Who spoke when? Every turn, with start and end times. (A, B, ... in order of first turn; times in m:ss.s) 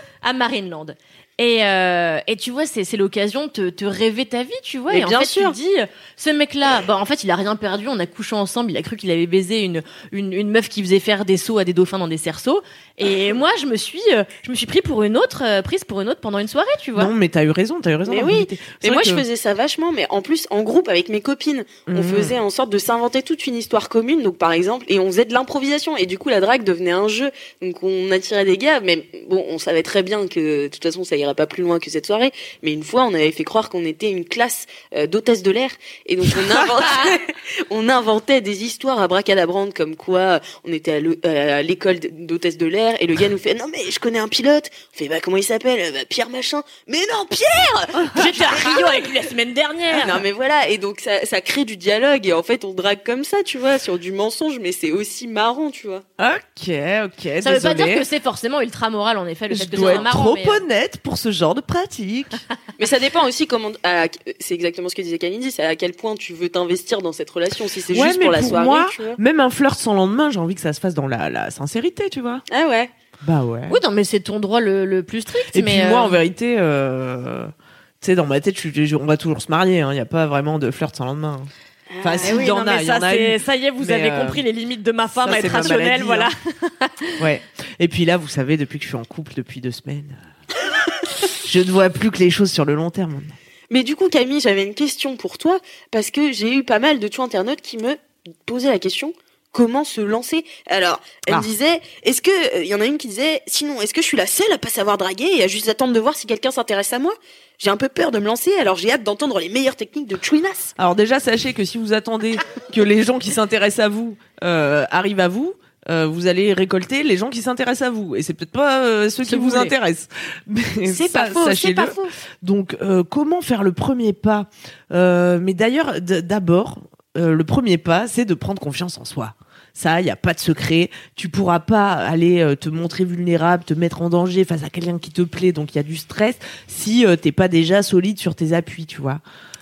0:00.2-0:17.1 A
0:04.9-0:05.6 B
0:17.0-0:19.2 C
0:18.1-0:49.0 B
0:21.9-0:22.4 C
0:48.1-0:50.2 A
0:49.9-0:56.0 B
0:56.2-0:58.1 C
0:57.4-1:00.6 A
0:59.5-1:02.4 C
0:59.8-1:00.1 B
1:02.8-1:09.2 B
1:07.9-1:12.4 C
1:12.5-1:12.9 B
1:13.2-1:13.8 C
1:13.7-1:16.2 A
1:15.5-1:21.5 C
1:21.9-1:22.4 B
1:22.0-1:24.4 C
1:22.2-1:27.2 A
1:25.2-1:26.3 C
1:27.2-1:30.2 C
1:31.4-1:33.4 C
1:33.7-1:50.7 B
1:50.8-2:19.2 C
1:59.2-1:59.7 A
2:00.9-2:02.2 B